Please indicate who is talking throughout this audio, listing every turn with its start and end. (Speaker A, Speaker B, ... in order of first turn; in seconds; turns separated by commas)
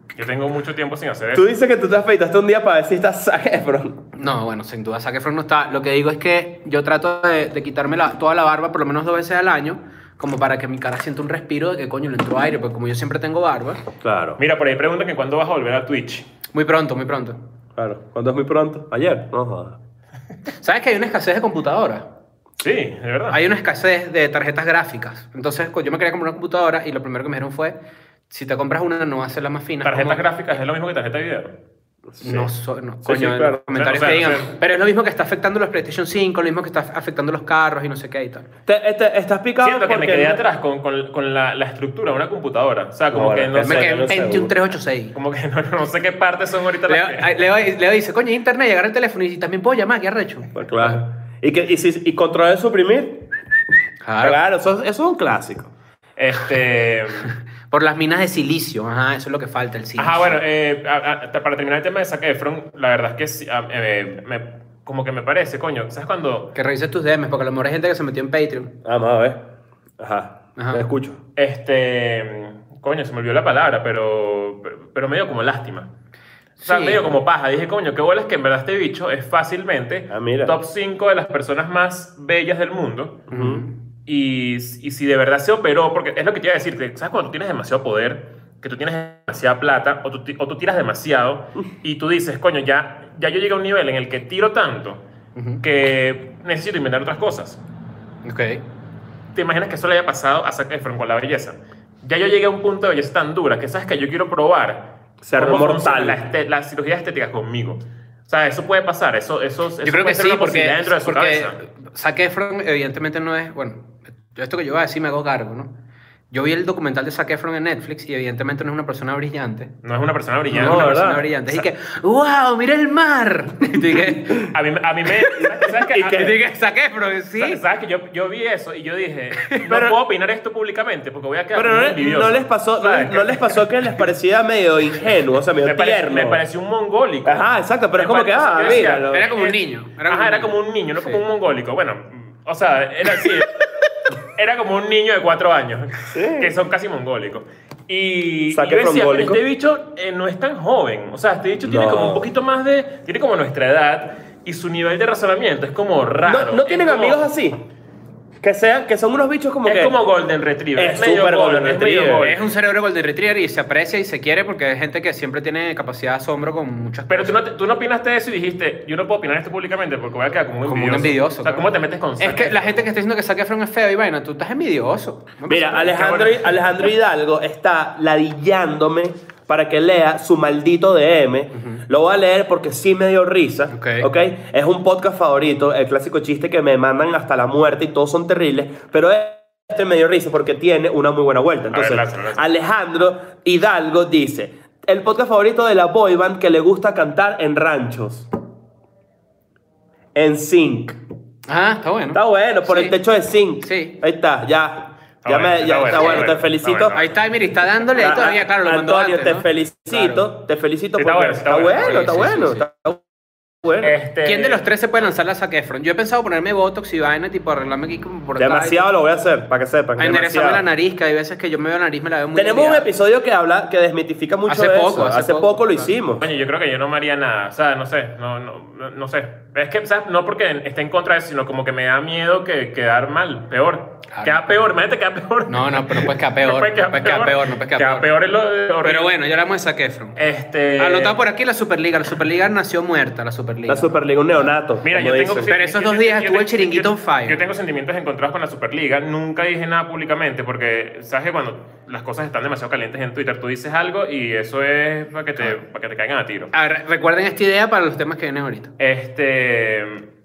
Speaker A: 0.1-1.4, Speaker B: 1.3-4.0, Speaker C: 4.1-13.8, Speaker B: 14.0-14.4, Speaker A: 14.4-16.3, Speaker C: 16.5-17.4, Speaker B: 17.8-19.8, Speaker C: 20.6-22.1, Speaker A: 22.6-23.4, Speaker C: 23.3-27.8, Speaker C: 28.3-30.2, Speaker A: 29.8-31.5, Speaker B: 32.1-32.5, Speaker C: 32.2-38.5, Speaker B: 33.0-34.0, Speaker A: 33.7-34.5, Speaker B: 38.6-40.4, Speaker A: 39.6-44.1, Speaker B: 43.1-44.5, Speaker C: 43.6-45.1, Speaker A: 45.1-47.3, Speaker C: 46.9-50.9, Speaker B: 50.5-53.3, Speaker C: 54.0-54.4, Speaker B: 54.2-55.7, Speaker A: 56.2-57.3, Speaker C: 57.7-60.4, Speaker A: 60.0-66.5, Speaker C: 66.5-68.7, Speaker B: 68.8-69.4, Speaker B: 70.0-71.2, Speaker C: 70.5-70.8, Speaker A: 71.4-75.9, Speaker C: 76.6-77.0, Speaker A: 76.6-83.3, Speaker B: 80.1-80.5, Speaker B: 83.3-83.6, Speaker C: 83.3-83.7, Speaker A: 84.0-95.0, Speaker C: 95.3-95.6, Speaker A: 95.6-97.6, Speaker C: 98.2-98.6, Speaker A: 99.3-111.6, Speaker B: 105.2-106.2, Speaker C: 109.8-115.7, Speaker C: 116.3-119.7, Speaker A: 119.8-121.2, Speaker B: 120.5-121.2, Speaker C: 120.5-124.5, Speaker A: 124.5-126.3, Speaker B: 125.3-126.3, Speaker C: 125.9-127.6, Speaker A: 127.4-133.6, Speaker B: 129.7-130.0, Speaker B: 131.5-136.4, Speaker A: 135.6-143.6, Speaker B: 137.2-139.3, Speaker C: 139.1-141.2, Speaker A: 144.3-157.3, Speaker B: 146.1-146.5, Speaker B: 148.5-149.4, Speaker B: 151.6-152.3, Speaker B: 156.2-157.6, Speaker B: 158.4-160.0, Speaker A: 159.6-162.4, Speaker B: 160.8-162.3, Speaker C: 162.2-167.4, Speaker A: 167.1-172.8, Speaker C: 170.7-171.7, Speaker C: 172.2-176.0, Speaker B: 175.5-198.3, Speaker A: 175.8-176.6, Speaker C: 181.5-181.8, Speaker C: 183.7-184.1, Speaker A: 191.7-192.4, Speaker B: 200.1-201.0, Speaker C: 201.5-202.9, Speaker B: 202.1-207.0, Speaker C: 203.6-204.0, Speaker A: 205.2-207.1, Speaker C: 205.9-206.3, Speaker C: 206.9-210.2, Speaker B: 207.9-213.1, Speaker A: 210.9-212.1, Speaker C: 211.7-212.6, Speaker B: 213.6-213.9, Speaker A: 213.8-214.6, Speaker C: 214.2-218.9, Speaker B: 218.4-220.6, Speaker C: 220.0-222.9, Speaker B: 222.3-226.3, Speaker C: 224.5-225.9, Speaker A: 226.2-239.1, Speaker C: 234.1-234.4, Speaker C: 235.5-238.1, Speaker C: 238.8-240.2, Speaker A: 240.2-241.2, Speaker C: 240.8-244.5, Speaker B: 243.7-245.5, Speaker A: 244.8-256.5, Speaker C: 245.4-247.4, Speaker C: 256.5-258.7, Speaker A: 258.8-260.0